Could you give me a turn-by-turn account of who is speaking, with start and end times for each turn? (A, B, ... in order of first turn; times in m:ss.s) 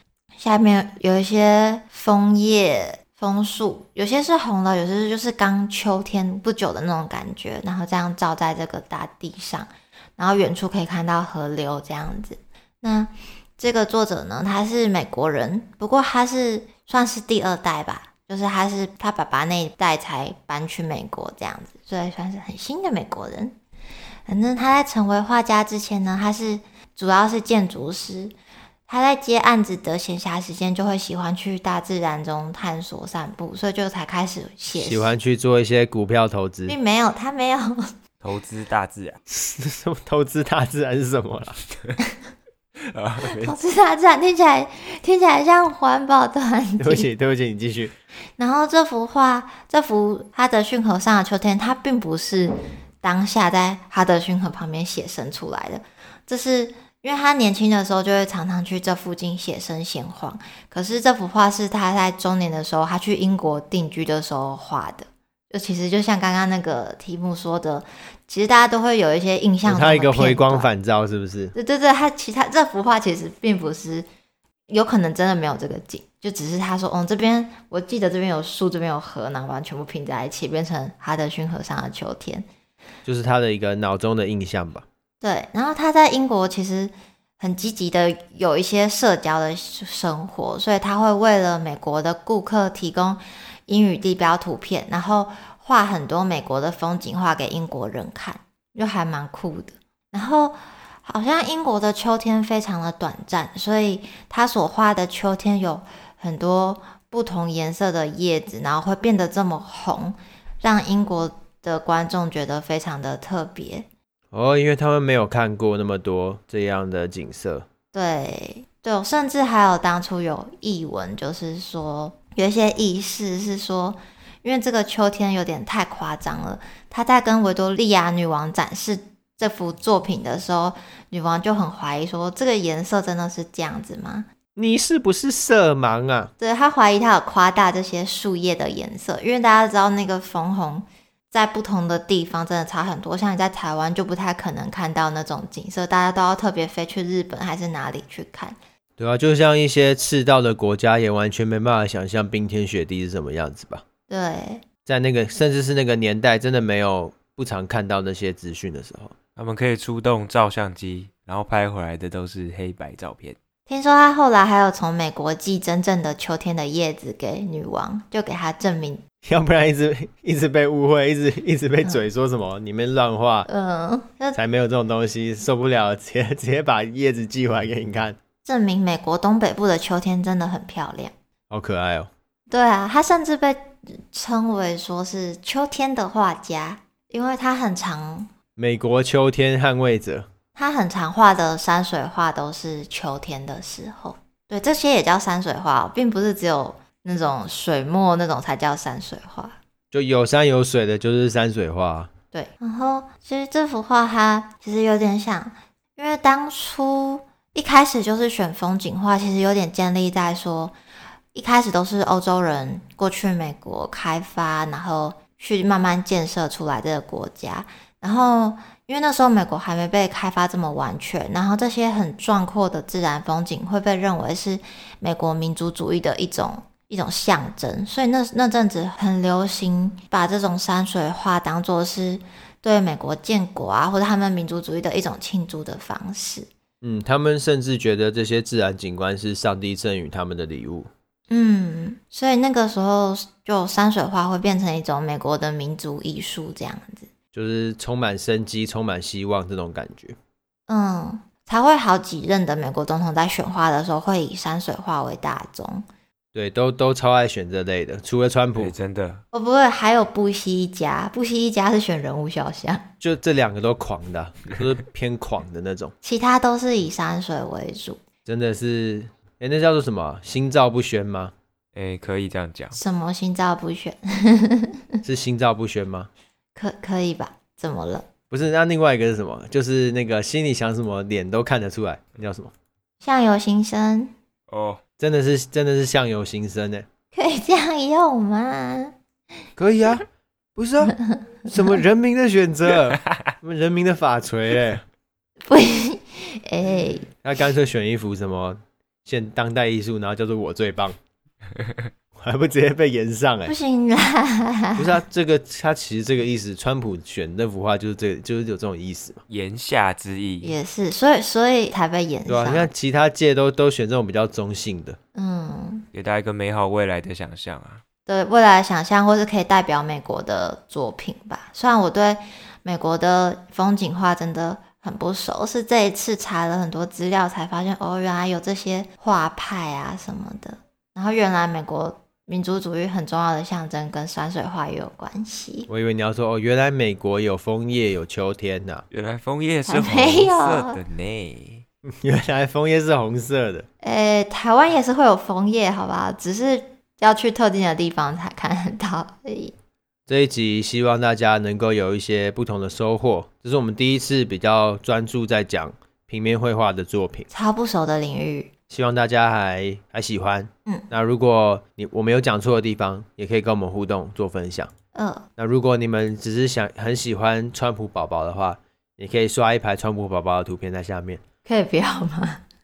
0:00.4-0:23.6 A
0:24.2-0:28.3 A
0:28.9-0:35.1 A
0:34.7-0:36.8 B
0:36.7-0:37.9 A
0:38.2-0:39.2 C
0:39.3-0:41.6 B
0:42.8-0:43.6 C
0:43.3-0:47.1 A
0:46.8-0:47.9 B
0:48.4-1:10.7 A
1:09.6-1:11.5 B
1:11.5-1:14.0 A
1:14.7-1:22.4 A
1:23.0-1:24.8 B
1:25.2-1:53.9 A
1:54.3-1:57.6 B
1:57.9-2:14.3 A
2:14.6-2:16.3 B
2:16.4-2:28.6 A
2:29.0-2:33.8 B
2:34.1-2:34.6 A
2:34.8-2:39.1 B
2:39.4-2:43.4 C
2:43.7-2:49.0 A
2:49.2-2:53.5 B
2:53.5-2:54.4 A
2:54.3-2:58.2 B
2:58.4-3:01.1 A
3:01.5-3:02.1 B
3:02.5-3:08.3 A
3:08.6-3:10.3 B
3:10.5-3:19.6 A
3:19.9-3:22.1 B
3:22.3-3:30.7 A
3:31.3-3:56.5 A
3:56.8-4:00.9 B
4:01.3-4:07.1 A
4:07.3-4:10.2 B
4:10.7-4:15.8 A
4:16.3-4:18.7 B
4:18.6-4:19.2 C
4:19.3-4:22.9 A
4:23.0-4:25.9 B
4:26.0-4:28.0 A
4:28.2-4:31.3 B
4:31.7-4:32.8 C
4:32.7-4:35.0 A
4:35.0-4:36.1 B
4:36.5-4:38.1 A
4:38.3-4:42.5 B
4:43.0-4:44.1 A
4:44.5-4:44.8 C
4:45.0-4:46.9 B
4:47.1-4:48.9 A
4:49.6-4:54.8 B
4:51.0-4:51.5 A
4:55.4-4:57.1 A
4:57.2-5:01.0 B
5:01.6-5:01.8 C
5:02.1-5:03.5 B
5:03.5-5:05.0 A
5:04.8-5:09.2 B
5:09.3-5:10.6 C
5:10.4-5:12.7 A
5:12.3-5:15.0 B
5:15.1-5:15.9 A
5:15.9-5:17.8 C
5:18.0-5:35.7 A
5:35.7-5:38.8 B
5:38.9-5:41.6 C
5:39.7-5:40.8 A
5:41.9-5:43.6 B
5:43.8-5:49.5 A
5:50.1-5:57.3 B
5:57.3-5:58.5 A
5:58.7-6:04.7 B
6:04.9-6:05.2 A
6:05.4-6:11.2 B
6:11.4-6:12.4 A